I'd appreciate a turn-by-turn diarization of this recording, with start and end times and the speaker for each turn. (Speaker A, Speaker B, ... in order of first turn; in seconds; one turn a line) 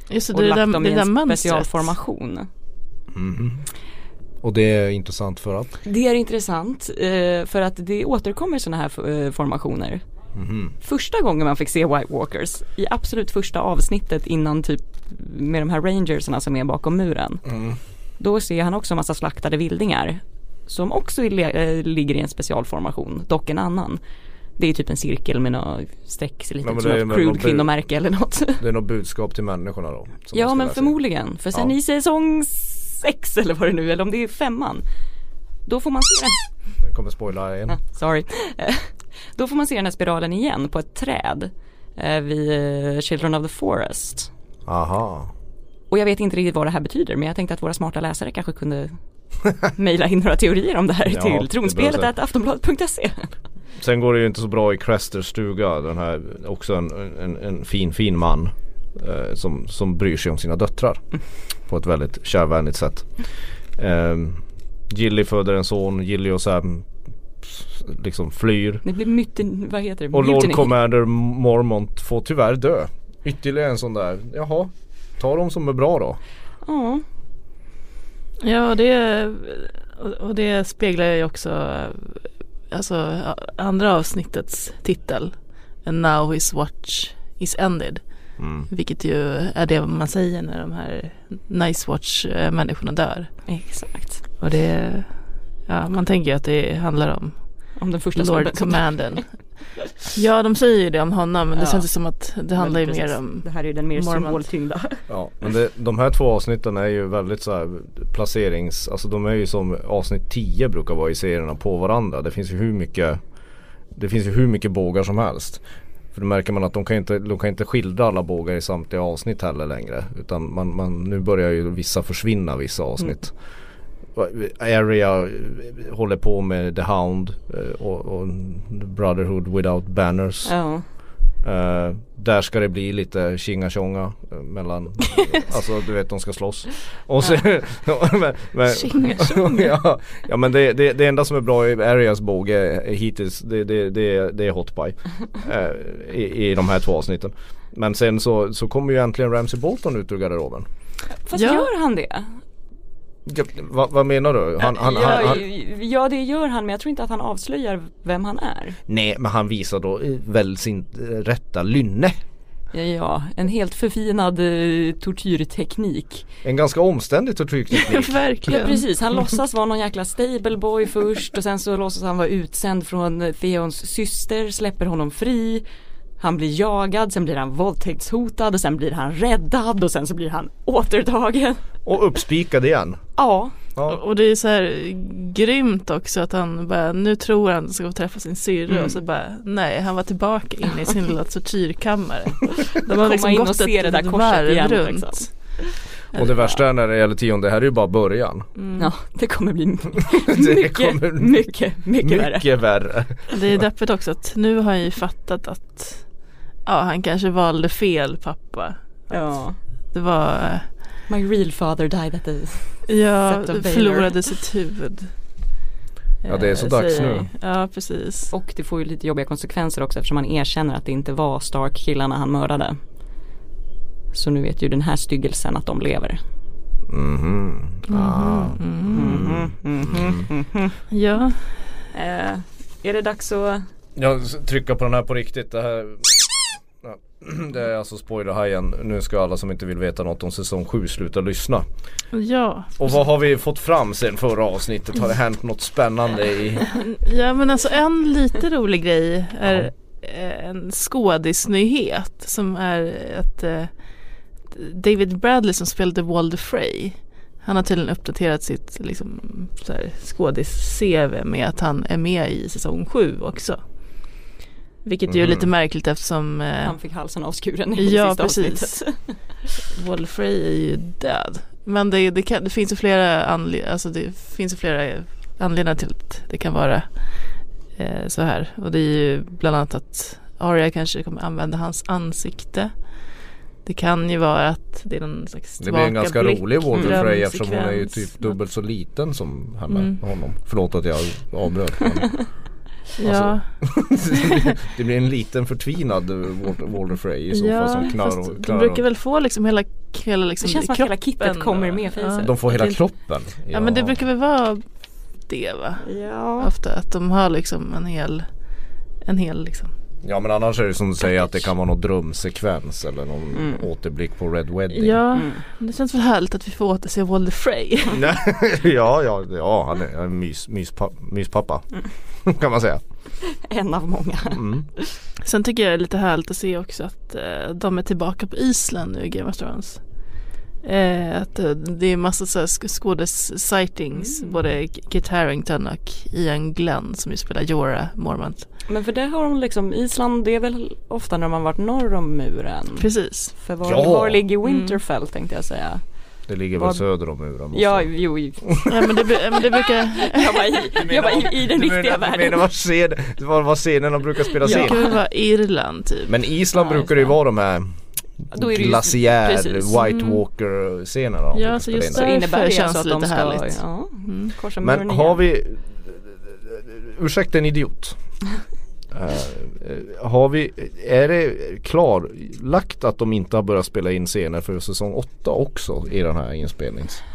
Speaker A: 0.1-1.9
Speaker B: 0.3-2.5
Speaker C: 3.1-3.7
Speaker C: 4.4-5.7
Speaker B: 5.8-10.0
Speaker C: 10.3-10.7
Speaker B: 10.8-17.5
Speaker C: 17.5-17.8
Speaker B: 18.2-24.0
Speaker B: 24.6-28.6
Speaker C: 26.6-27.7
Speaker C: 28.6-30.9
Speaker B: 30.3-34.8
Speaker B: 35.7-36.4
Speaker C: 36.8-37.8
Speaker B: 37.7-44.3
Speaker C: 44.7-45.3
Speaker B: 45.9-49.0
Speaker B: 49.7-53.3
Speaker C: 51.1-52.1
Speaker C: 53.8-61.0
Speaker C: 61.7-63.1
Speaker C: 63.8-66.9
Speaker C: 67.4-68.8
Speaker B: 68.8-70.8
Speaker C: 70.1-76.2
Speaker B: 76.7-77.0
Speaker A: 78.4-85.3
Speaker A: 85.8-88.0
Speaker C: 88.4-88.7
Speaker A: 88.7-93.3
Speaker B: 93.5-94.2
Speaker A: 94.4-95.1
Speaker A: 95.7-97.3
Speaker B: 97.8-98.9
Speaker A: 98.2-99.3
Speaker A: 100.1-104.4
Speaker B: 101.6-101.8
Speaker B: 102.6-105.0
Speaker C: 105.1-113.2
Speaker C: 114.0-115.6
Speaker C: 116.1-123.3
Speaker C: 124.2-130.5
Speaker B: 130.4-130.8
Speaker C: 131.4-150.7
Speaker A: 138.7-139.8
Speaker B: 151.3-152.3
Speaker A: 151.3-151.7
Speaker C: 153.3-155.4
Speaker B: 154.6-158.8
Speaker C: 158.9-162.2
Speaker B: 162.7-166.3
Speaker C: 166.4-168.1
Speaker A: 167.7-168.8
Speaker B: 168.5-175.6
Speaker B: 176.2-181.6
Speaker C: 181.8-183.0
Speaker B: 183.2-183.6
Speaker A: 183.9-195.3
Speaker B: 192.9-195.3
Speaker C: 196.1-198.5
Speaker B: 196.2-196.5
Speaker A: 198.6-198.9
Speaker B: 198.8-202.5
Speaker C: 200.2-201.4
Speaker C: 202.0-203.2
Speaker A: 203.3-206.0
Speaker A: 206.7-208.8
Speaker B: 209.1-209.6
Speaker A: 209.9-210.7
Speaker B: 211.1-214.2
Speaker A: 212.9-215.1
Speaker A: 216.2-218.3
Speaker C: 216.3-217.3
Speaker B: 218.3-222.8
Speaker B: 224.1-226.2
Speaker C: 226.9-230.3
Speaker A: 227.9-229.2
Speaker B: 228.9-230.8
Speaker A: 230.9-231.4
Speaker B: 231.9-233.6
Speaker C: 234.0-241.7
Speaker A: 242.1-242.8
Speaker C: 242.8-246.8
Speaker A: 246.7-253.7
Speaker A: 254.5-263.6
Speaker A: 264.9-266.8
Speaker C: 265.1-265.5
Speaker B: 266.6-269.0
Speaker A: 267.8-268.9
Speaker A: 269.7-276.9
Speaker A: 277.8-282.7
Speaker A: 283.6-288.1
Speaker C: 285.6-292.2
Speaker A: 289.7-290.0
Speaker A: 293.0-293.5
Speaker C: 293.0-298.8
Speaker A: 297.3-302.8
Speaker B: 300.4-302.6
Speaker C: 302.2-304.0
Speaker A: 303.5-304.6
Speaker A: 305.3-305.9
Speaker B: 305.8-306.5
Speaker A: 306.4-308.2
Speaker A: 309.1-309.7
Speaker C: 310.0-315.0
Speaker B: 313.3-313.6
Speaker A: 314.7-318.1
Speaker B: 315.1-315.4
Speaker C: 317.9-321.7
Speaker C: 322.2-322.8
Speaker B: 323.2-324.9
Speaker C: 324.3-324.7
Speaker A: 325.2-329.8
Speaker A: 330.6-338.5
Speaker B: 333.9-334.4
Speaker B: 338.7-342.9
Speaker A: 342.8-343.4
Speaker B: 343.4-345.8
Speaker C: 343.6-344.2
Speaker A: 344.4-344.8
Speaker C: 346.3-347.9
Speaker B: 346.6-346.8
Speaker B: 347.5-348.7
Speaker C: 348.4-348.7
Speaker A: 348.7-350.6
Speaker B: 349.4-352.4
Speaker C: 350.7-354.8
Speaker B: 354.4-354.9
Speaker A: 354.4-356.1
Speaker C: 356.1-357.7
Speaker B: 356.5-357.1
Speaker B: 358.3-360.2
Speaker C: 358.3-362.1
Speaker A: 361.3-364.3
Speaker B: 361.9-365.2
Speaker C: 364.6-368.0
Speaker C: 368.9-377.0